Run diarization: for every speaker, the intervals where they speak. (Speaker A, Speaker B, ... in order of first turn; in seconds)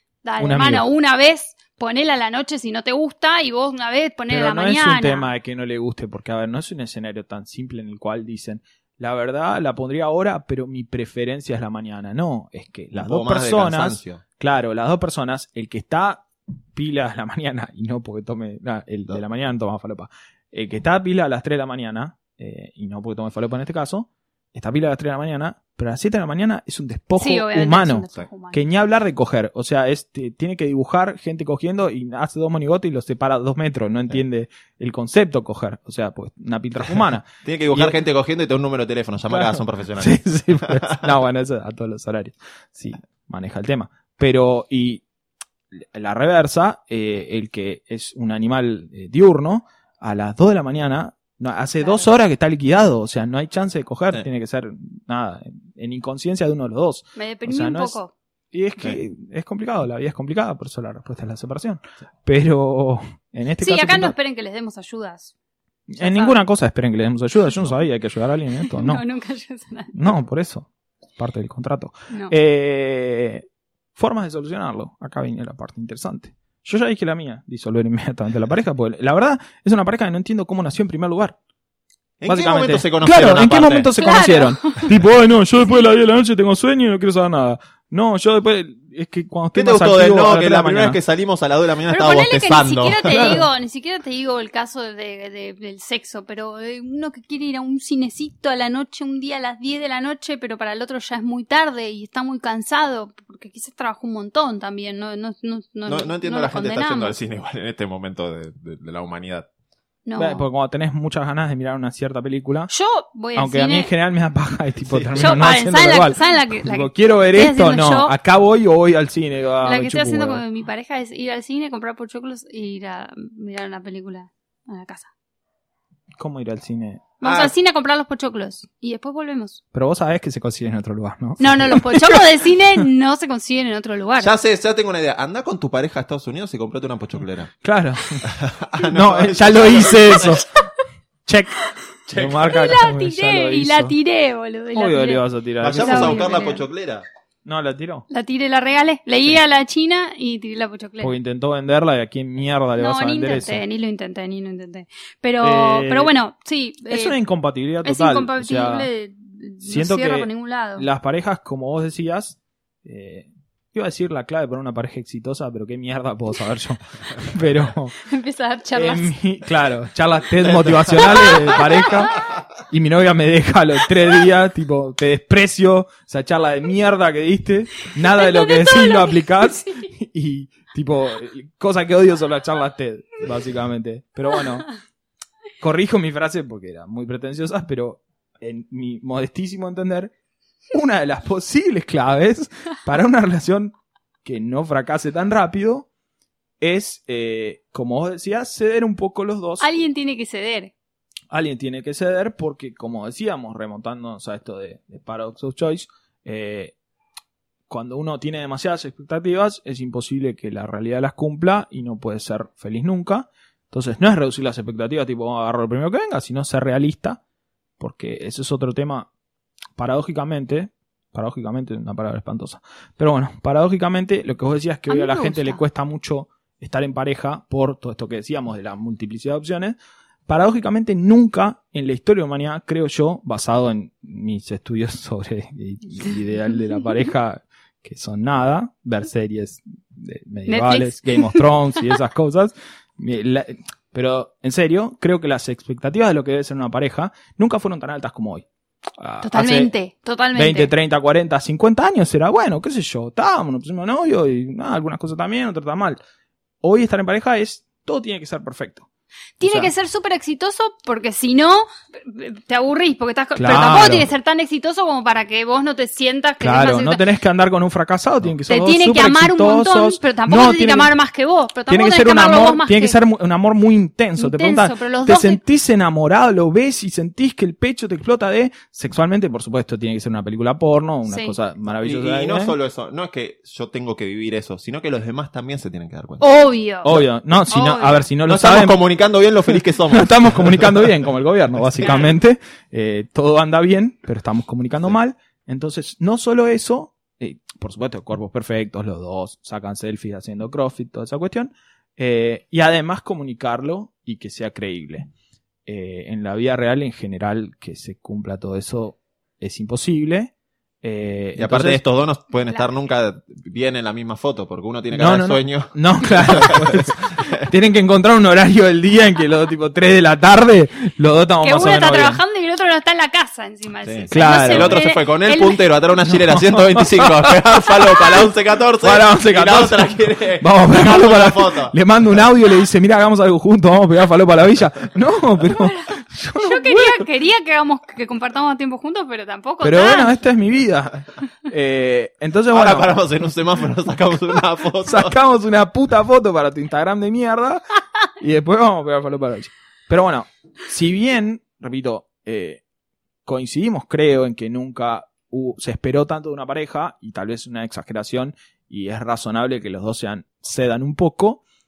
Speaker A: 0.2-5.3, 27.2-28.6, 51.8-52.1, 57.2-58.1, 63.6-65.3, 66.0-66.4, 68.6-70.0, 84.0-84.9, 91.9-107.2, 110.1-110.4, 112.7-113.9, 115.2-118.2, 119.6-125.1, 127.2-129.6, 131.4-134.3, 142.4-146.7, 148.1-151.1, 152.8-157.2, 157.8-160.9, 168.1-169.1, 171.5-172.1, 178.2-179.9, 199.6-200.7, 224.9-225.6, 240.5-241.4, 249.2-250.7, 259.4-267.0, 268.5-273.0, 274.2-275.4, 281.1-281.4, 286.2-288.1, 291.8-292.1, 321.4-325.6, 335.6-340.1
Speaker B: 0.4-0.8, 4.3-38.0, 39.3-45.0, 45.7-58.0, 58.5-64.2, 65.9-69.0, 70.0-81.4, 82.3-91.0, 110.2-112.7, 113.3-120.4, 126.2-127.1, 129.7-132.8, 137.6-138.2, 138.8-140.5, 141.3-143.9, 144.7-146.4, 147.4-148.1, 151.0-153.6, 155.4-156.1, 156.9-158.9, 159.6-167.9, 168.7-184.7, 185.6-190.1, 190.7-195.9, 196.6-199.7, 201.3-206.8, 207.7-217.2, 217.8-219.1, 219.8-248.5, 249.0-249.7, 250.3-256.0, 256.6-258.9, 259.4-259.7, 263.4-264.1, 266.4-270.9, 271.7-282.6, 286.9-288.8, 289.5-305.1, 305.7-311.8, 314.9-322.2, 324.1-324.8, 326.1-327.8, 328.8-337.1, 339.6-343.0, 344.8-347.6, 348.2-352.6, 353.3-361.4
Speaker C: 12.9-14.2, 37.4-41.1, 82.2-83.9, 89.5-93.5, 105.9-109.5, 114.8-115.4, 127.2-127.5, 134.2-137.5, 138.2-140.4, 142.2-142.5, 145.6-147.1, 170.4-171.6, 281.7-286.3, 288.2-291.0, 311.4-317.5, 323.8-331.8, 342.5-345.2